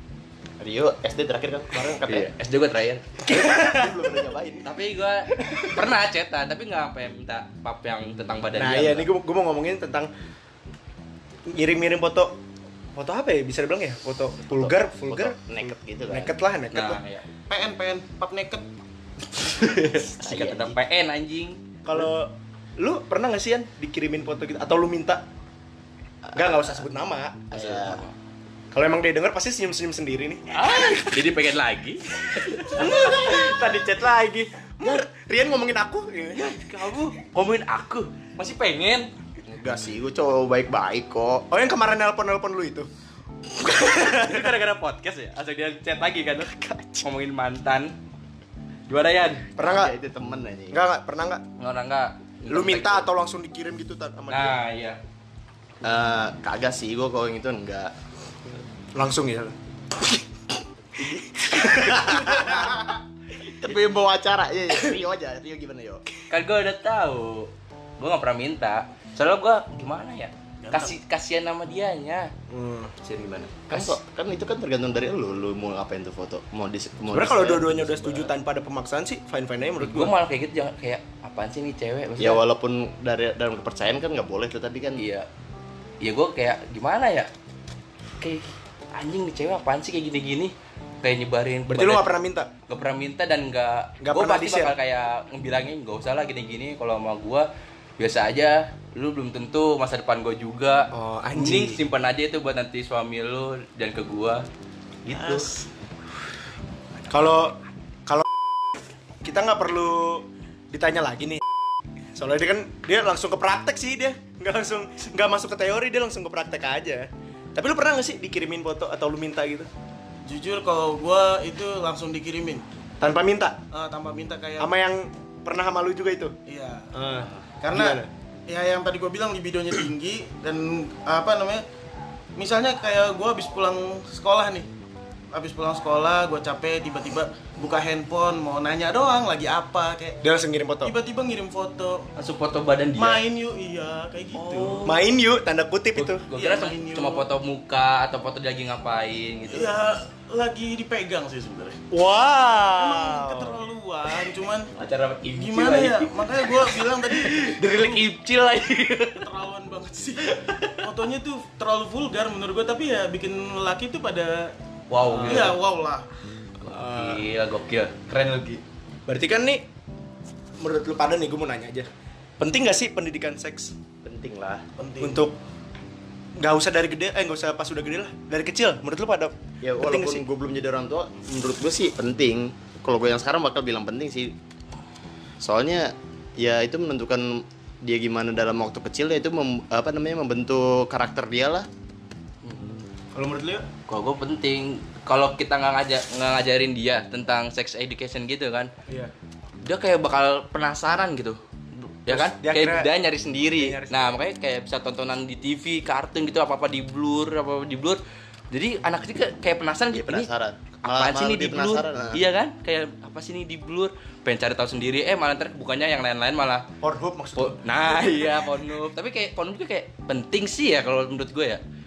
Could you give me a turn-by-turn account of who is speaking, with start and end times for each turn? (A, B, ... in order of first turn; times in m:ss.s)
0:00.6-0:02.3 A
0:01.7-0:02.0 B
0:02.0-0:03.0 C
0:03.2-0:04.2 B
0:03.3-0:04.7 A
0:04.6-0:09.1 C
0:08.5-0:10.1 B
0:11.5-0:12.4 B
0:12.9-0:17.0 B
0:14.5-0:16.3 A
0:16.7-0:17.2 C
0:17.5-0:18.6 D
0:19.4-0:21.6 C
0:20.2-0:20.8 A
0:21.8-0:25.2 B
0:26.3-0:27.5 B
0:27.5-0:28.0 A
0:27.5-0:28.1 C
0:28.7-0:30.4 B
0:30.5-0:33.3 C
0:32.7-0:36.6 B
0:36.3-0:39.1 C
0:39.4-0:41.4 A
0:41.5-0:42.9 B
0:43.6-0:44.5 B
0:43.7-0:48.0 C
0:46.5-0:47.0 B
0:48.9-0:49.5 C
0:49.6-0:49.9 B
0:49.6-0:50.8 A
0:50.7-0:51.4 B
0:51.6-0:53.1 C
0:52.5-0:54.6 B
0:54.3-0:55.0 C
0:55.8-0:57.9 A
0:59.0-0:59.5 B
1:01.0-1:06.0 A
1:01.4-1:02.7 B
1:06.3-1:12.3 C
1:10.6-1:10.9 D
1:12.5-1:12.9 B
1:13.0-1:18.3 A
1:17.1-1:20.1 B
1:19.8-1:22.4 C
1:22.2-1:25.0 A
1:25.0-1:25.3 C
1:26.0-1:27.3 C
1:28.2-1:32.1 C
1:31.7-1:32.5 B
1:32.7-1:44.4 C
1:34.0-1:34.7 B
1:40.9-1:41.8 B
1:45.0-1:45.5 C
1:45.1-1:45.6 D
1:47.1-1:48.2 B
1:49.2-1:51.4 B
1:52.2-1:59.7 B
2:00.2-2:02.6 D
2:03.0-2:03.6 B
2:03.7-2:04.7 D
2:04.6-2:06.3 B
2:06.4-2:06.9 D
2:06.9-2:08.1 B
2:07.6-2:11.6 D
2:12.4-2:14.7 D
2:15.3-2:20.2 D
2:20.2-2:20.9 B
2:20.8-2:22.1 D
2:22.2-2:23.2 C
2:23.0-2:24.8 D
2:24.3-2:25.0 C
2:24.8-2:26.2 B
2:26.0-2:29.7 C
2:26.3-2:27.3 D
2:29.5-2:31.8 D
2:31.9-2:33.6 B
2:32.7-2:34.7 D
2:34.7-2:39.2 C
2:35.4-2:38.0 D
2:39.2-2:44.5 D
2:40.3-2:40.8 C
2:44.9-2:45.6 C
2:45.1-2:46.0 D
2:46.6-2:48.6 C
2:46.6-2:47.2 B
2:49.1-2:49.6 B
2:50.6-2:51.9 B
2:52.4-2:53.7 B
2:54.0-2:54.6 A
2:54.8-2:55.3 D
2:55.0-2:55.4 B
2:56.4-3:00.2 B
2:59.6-3:04.3 A
3:05.4-3:11.7 A
3:12.4-3:12.8 C
3:13.1-3:13.6 B
3:13.9-3:18.7 C
3:19.6-3:28.0 C
3:22.1-3:22.9 B
3:23.5-3:24.2 B
3:28.5-3:30.3 C
3:29.9-3:32.2 A
3:30.8-3:36.6 C
3:36.8-3:38.3 B
3:37.4-3:41.6 C